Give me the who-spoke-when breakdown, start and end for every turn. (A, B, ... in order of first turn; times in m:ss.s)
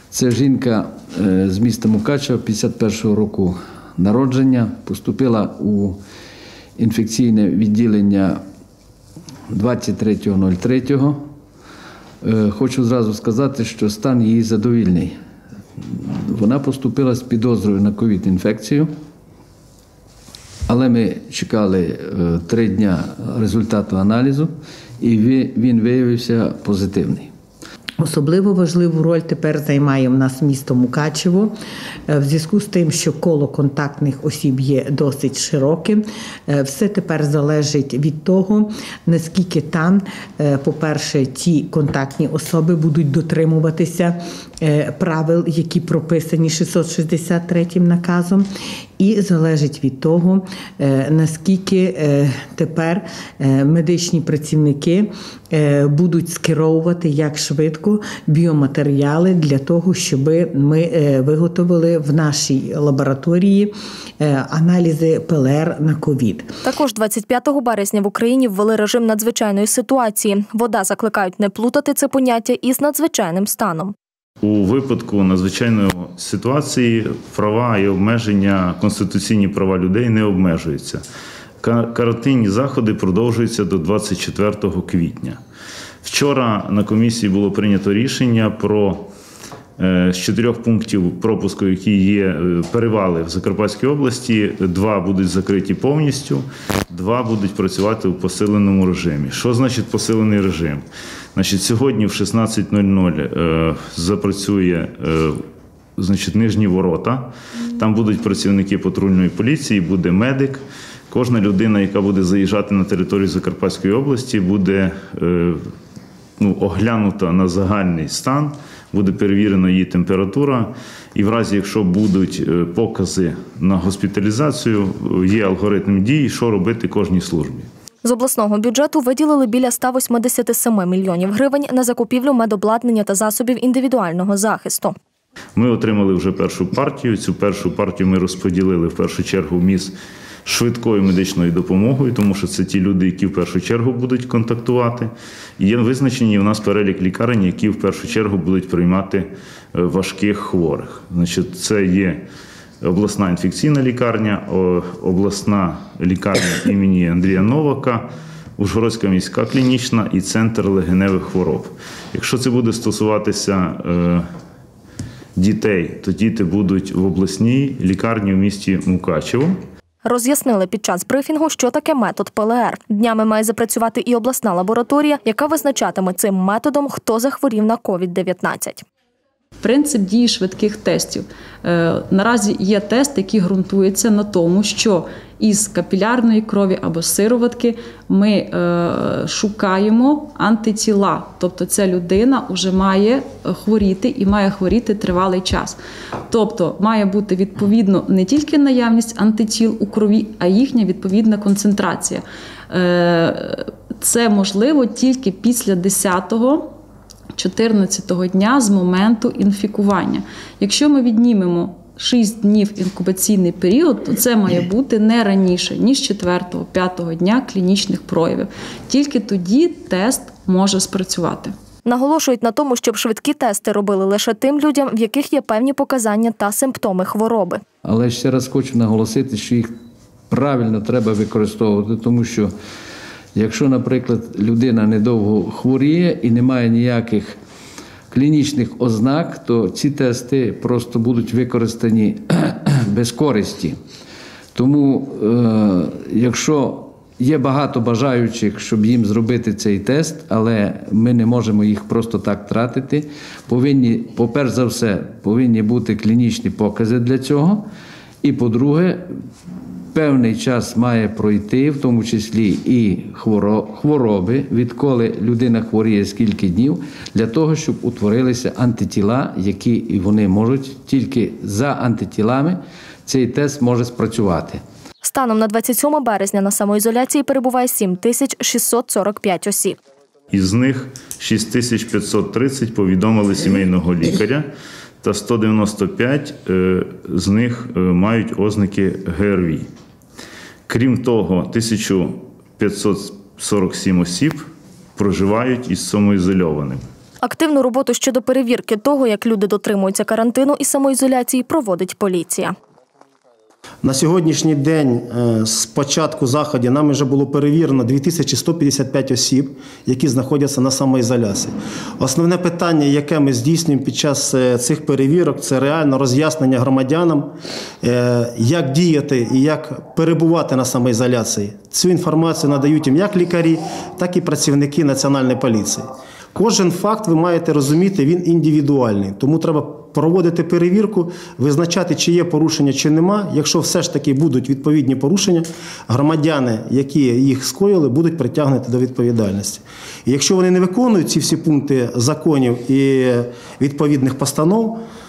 0:00.1-0:06.0 A
0:06.8-0:08.4 A
0:09.5-0:11.2 A
0:12.2-0:15.1 A
0:15.8-0:18.9 A
0:20.7-0:27.3 A
0:28.0-0:31.5 B
0:32.1-0:48.5 B
0:49.0-1:06.5 B
1:06.6-1:13.9 C
1:14.4-1:21.0 D
1:21.6-1:25.4 D
1:26.0-1:29.1 D
1:29.8-1:40.8 D
1:41.3-1:45.4 D
1:46.0-1:55.6 D
1:56.4-2:07.7 D
2:08.0-2:14.9 C
2:15.6-2:19.9 D
2:20.4-2:32.2 D
2:32.8-2:44.2 D
2:45.4-2:49.5 D
2:50.0-2:58.8 C
2:59.6-3:26.6 E
3:27.4-3:41.5 E
3:41.8-3:47.6 C
3:47.8-3:49.7 A
3:50.3-3:52.5 A
3:53.3-3:57.4 A
3:58.1-4:03.8 A
4:04.5-4:17.6 A
4:18.2-4:19.0 A
4:19.9-4:34.6 A
4:35.0-4:39.8 C
4:40.3-4:44.5 D
4:45.0-4:49.6 D
4:50.7-4:54.4 D
4:55.0-4:56.8 D
4:57.2-5:02.5 C
5:03.8-5:44.8 F